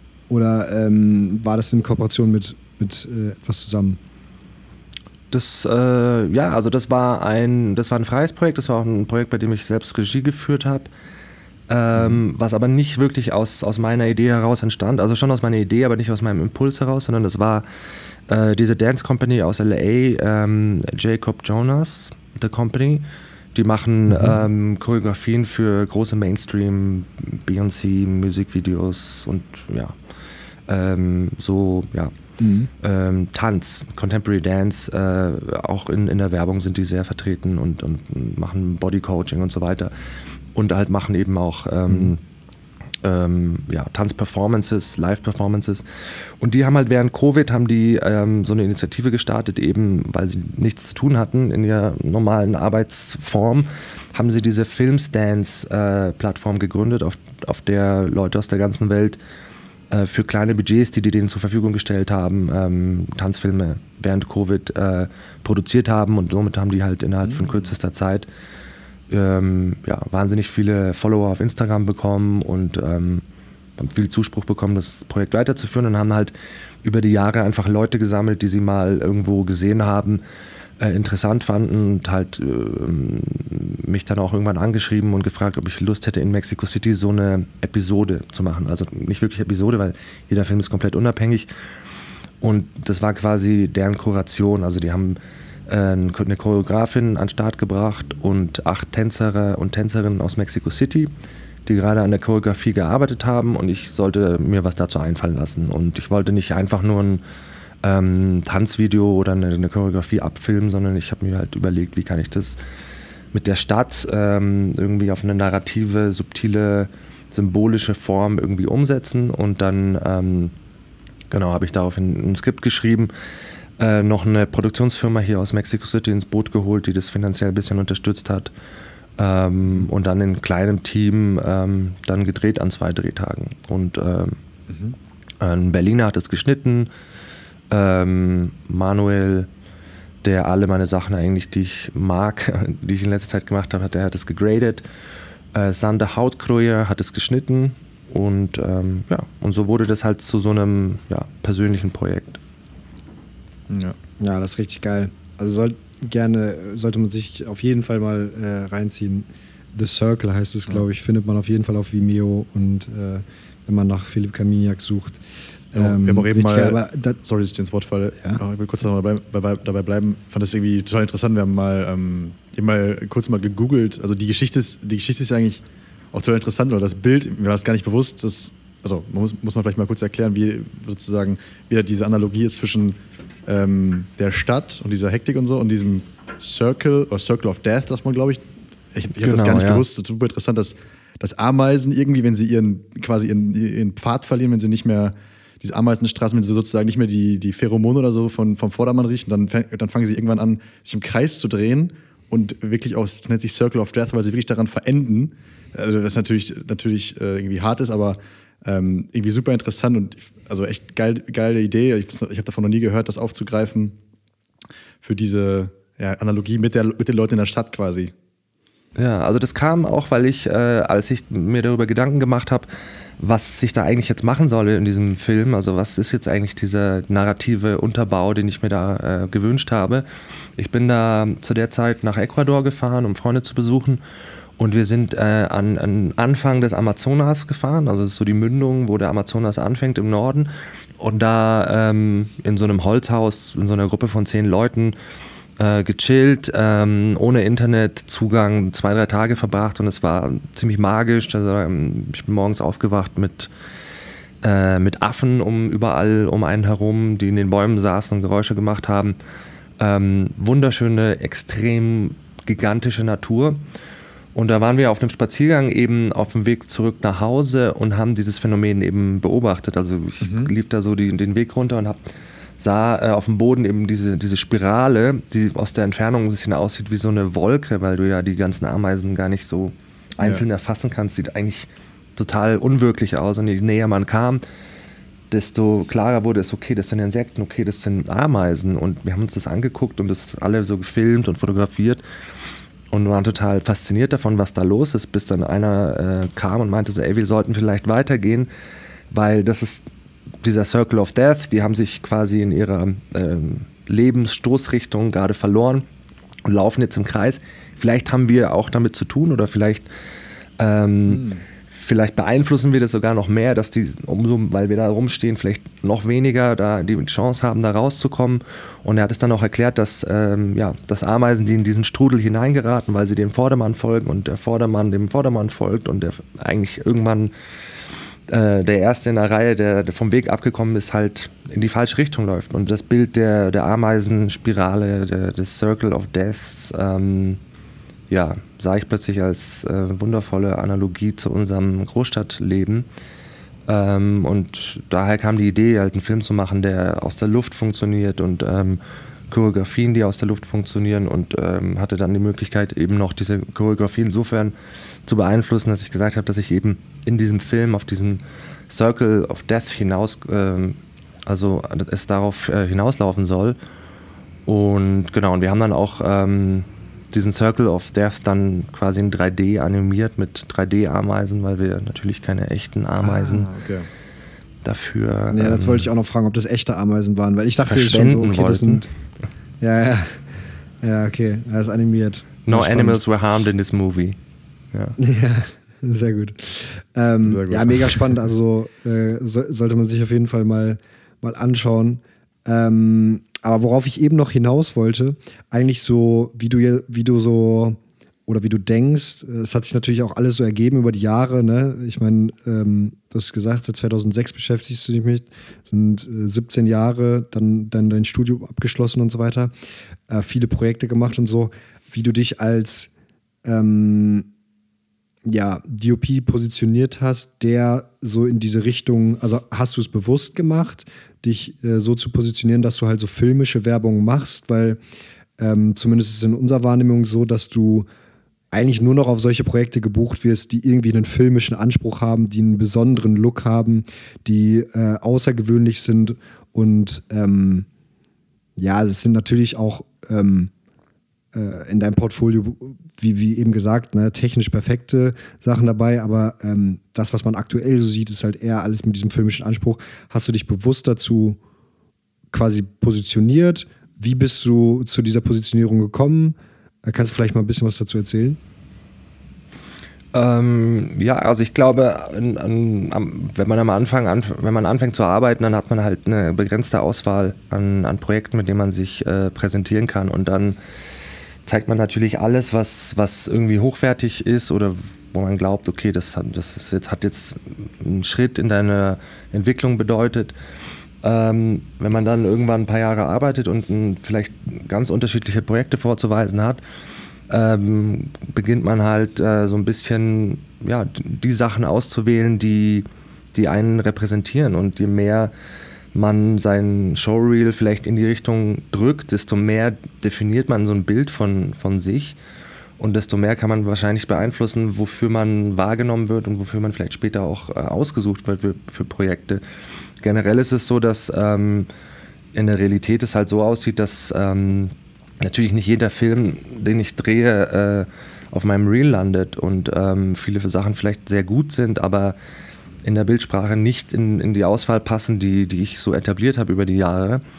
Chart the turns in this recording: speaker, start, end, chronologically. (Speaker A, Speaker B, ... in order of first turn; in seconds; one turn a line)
Speaker A: 0.3-4.0
Speaker B: 5.3-10.9
Speaker B: 11.7-17.7
Speaker B: 18.3-23.0
Speaker B: 23.6-30.0
Speaker B: 30.7-32.1
Speaker A: 32.4-32.7
Speaker B: 32.8-39.9
Speaker B: 40.5-42.2
Speaker B: 43.0-59.2
Speaker B: 59.9-68.3
Speaker B: 69.1-73.2
Speaker B: 73.8-80.2
Speaker B: 80.8-91.5
Speaker B: 92.4-101.1
Speaker B: 101.7-107.2
Speaker B: 107.8-112.6
Speaker B: 113.3-120.5
Speaker B: 121.3-123.1
Speaker B: 123.8-128.5
Speaker B: 129.2-134.4
Speaker C: 134.7-135.0
Speaker B: 135.4-136.9
Speaker B: 137.7-139.5
Speaker B: 140.2-144.8
Speaker B: 145.5-152.4
Speaker C: 153.7-154.0
Speaker A: 154.2-165.2
Speaker A: 165.7-167.2
Speaker C: 165.7-175.6
Speaker C: 176.1-188.4
Speaker C: 188.9-214.0
Speaker B: 189.2-189.8
Speaker C: 215.0-218.1
Speaker B: 219.0-222.7
Speaker B: 223.2-230.1
Speaker B: 230.6-234.0
Speaker B: 234.6-244.9
Speaker B: 245.6-253.5
Speaker B: 254.4-259.2
Speaker B: 259.8-263.6
Speaker B: 264.4-272.0
Speaker C: 270.2-270.5
Speaker B: 272.6-284.4
Speaker C: 280.2-280.4
Speaker B: 285.3-292.0
Speaker B: 292.9-298.5
Speaker B: 299.1-299.8
Speaker B: 300.4-305.9
Speaker B: 306.5-309.9
Speaker B: 310.6-327.3
Speaker C: 311.1-311.4
Speaker B: 328.3-337.4
Speaker B: 338.1-342.9
Speaker B: 343.7-354.5
Speaker B: 355.1-363.6
Speaker B: 364.5-373.5
Speaker C: 373.0-373.9
Speaker B: 374.6-375.8
Speaker A: 375.3-378.9
Speaker B: 377.6-378.9
Speaker A: 379.6-383.0
Speaker B: 382.5-384.2
Speaker A: 385.0-409.5
Speaker C: 387.3-388.2
Speaker A: 410.1-412.9
Speaker A: 413.4-414.3
Speaker A: 415.3-424.8
Speaker A: 425.4-427.9
Speaker A: 428.5-437.7
Speaker A: 438.6-440.5
Speaker A: 441.3-451.4
Speaker A: 452.3-458.4
Speaker B: 460.1-470.6
Speaker B: 471.5-480.4
Speaker B: 481.0-486.6
Speaker B: 487.3-495.3
Speaker B: 495.9-502.2
Speaker B: 502.8-509.4
Speaker B: 510.0-511.7
Speaker B: 512.3-522.2
Speaker B: 522.8-527.2